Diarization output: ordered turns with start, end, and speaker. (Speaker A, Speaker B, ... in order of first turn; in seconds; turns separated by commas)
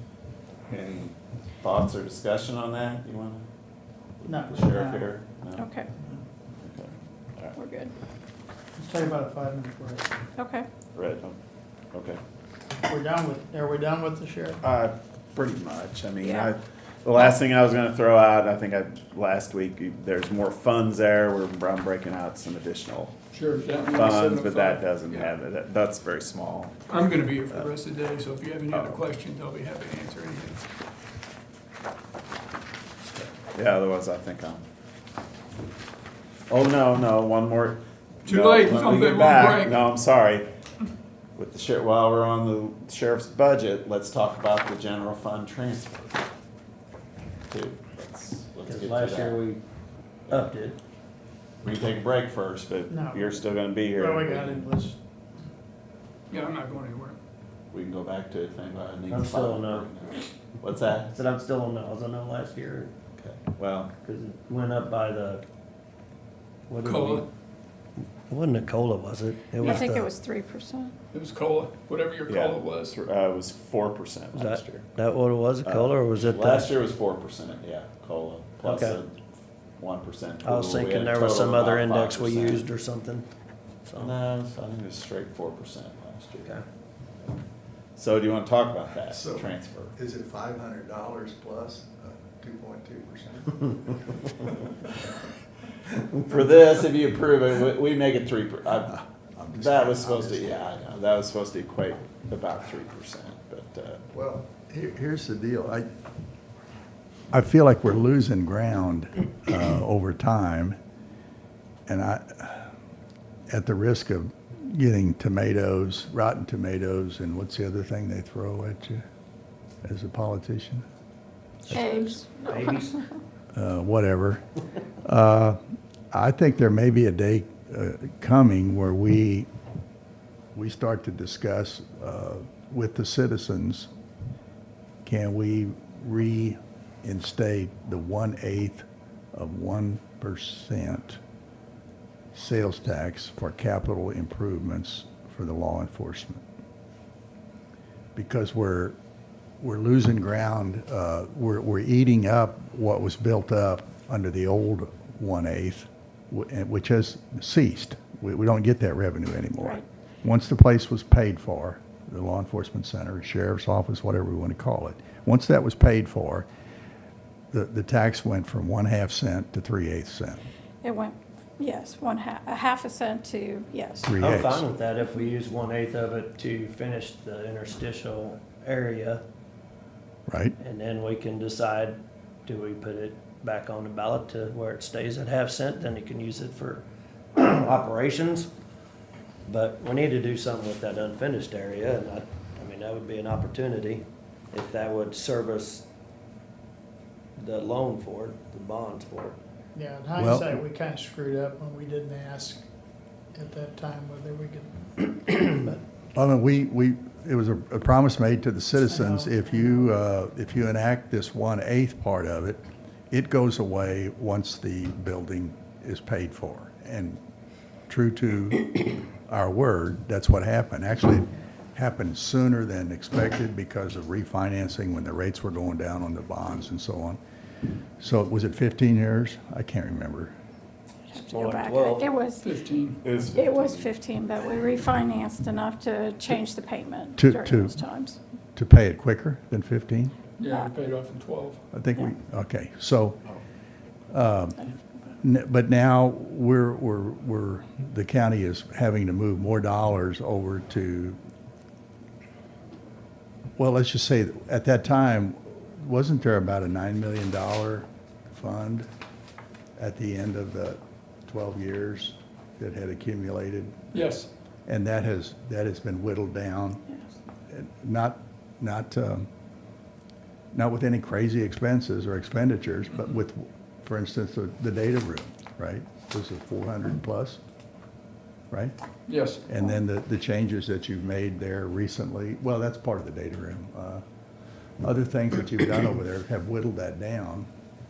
Speaker A: 0.7-3.4, Speaker A: 4.2-5.7, Speaker B: 4.2-5.1, Speaker C: 5.6-5.9, Speaker A: 6.6-7.6, Speaker C: 7.5-7.9, Speaker B: 8.8-10.1, Speaker C: 10.4-10.7, Speaker A: 10.9-11.4, Speaker A: 11.9-12.2, Speaker B: 12.8-14.6, Speaker A: 14.6-23.2, Speaker C: 16.2-16.5, Speaker D: 23.3-25.3, Speaker A: 23.9-26.8, Speaker D: 26.9-30.6, Speaker A: 28.7-29.1, Speaker A: 33.5-34.6, Speaker A: 36.5-40.5, Speaker D: 38.2-39.9, Speaker A: 41.4-46.2, Speaker A: 47.5-49.4, Speaker E: 48.7-49.6, Speaker E: 50.3-50.8, Speaker A: 51.6-54.7, Speaker B: 52.9-55.0, Speaker D: 56.3-57.2, Speaker A: 57.7-61.1, Speaker E: 59.1-59.9, Speaker E: 61.1-62.9, Speaker A: 63.2-63.9, Speaker E: 64.0-65.4, Speaker E: 66.7-67.3, Speaker D: 66.8-67.3, Speaker E: 68.3-70.1, Speaker C: 69.6-70.9, Speaker D: 71.1-73.0, Speaker A: 72.3-74.9, Speaker E: 74.3-76.7, Speaker A: 75.6-79.2, Speaker E: 78.6-79.0, Speaker A: 79.8-82.7, Speaker E: 80.4-83.3, Speaker E: 83.9-84.1, Speaker A: 84.0-86.6, Speaker A: 88.0-89.9, Speaker F: 89.1-94.7, Speaker A: 96.2-99.0, Speaker F: 99.4-100.7, Speaker A: 99.5-104.0, Speaker F: 104.1-105.9, Speaker F: 107.3-110.8, Speaker F: 111.9-112.7, Speaker F: 113.5-119.0, Speaker F: 119.8-120.8, Speaker E: 121.7-123.0, Speaker C: 121.7-123.0, Speaker F: 123.5-124.4, Speaker F: 125.0-125.6, Speaker F: 126.1-129.5, Speaker F: 130.6-133.9, Speaker F: 135.1-141.2, Speaker F: 142.3-146.4, Speaker F: 148.2-149.0, Speaker F: 149.6-166.5, Speaker C: 159.6-159.8, Speaker F: 167.5-170.4, Speaker C: 170.8-174.1, Speaker F: 174.0-174.7, Speaker E: 174.2-179.2, Speaker F: 180.3-180.6, Speaker E: 180.6-186.8, Speaker E: 187.3-188.5, Speaker E: 189.5-195.9, Speaker E: 197.4-199.4, Speaker B: 199.8-202.7, Speaker F: 200.2-200.6, Speaker B: 203.3-205.8, Speaker F: 206.2-217.2, Speaker B: 208.8-209.9, Speaker F: 217.9-227.2, Speaker F: 228.0-230.3, Speaker C: 231.1-232.5, Speaker E: 231.2-232.1, Speaker D: 232.4-233.0, Speaker A: 233.0-233.9, Speaker C: 233.2-238.2, Speaker F: 237.2-237.8, Speaker F: 238.6-240.2, Speaker D: 240.4-241.6, Speaker F: 241.7-243.2, Speaker F: 244.1-244.7, Speaker F: 245.2-251.2, Speaker F: 253.6-258.9, Speaker F: 259.8-263.8, Speaker D: 263.9-264.3, Speaker F: 264.7-266.8, Speaker F: 267.5-269.3, Speaker F: 270.5-277.4, Speaker D: 279.1-279.4, Speaker F: 279.5-284.0, Speaker F: 284.8-287.5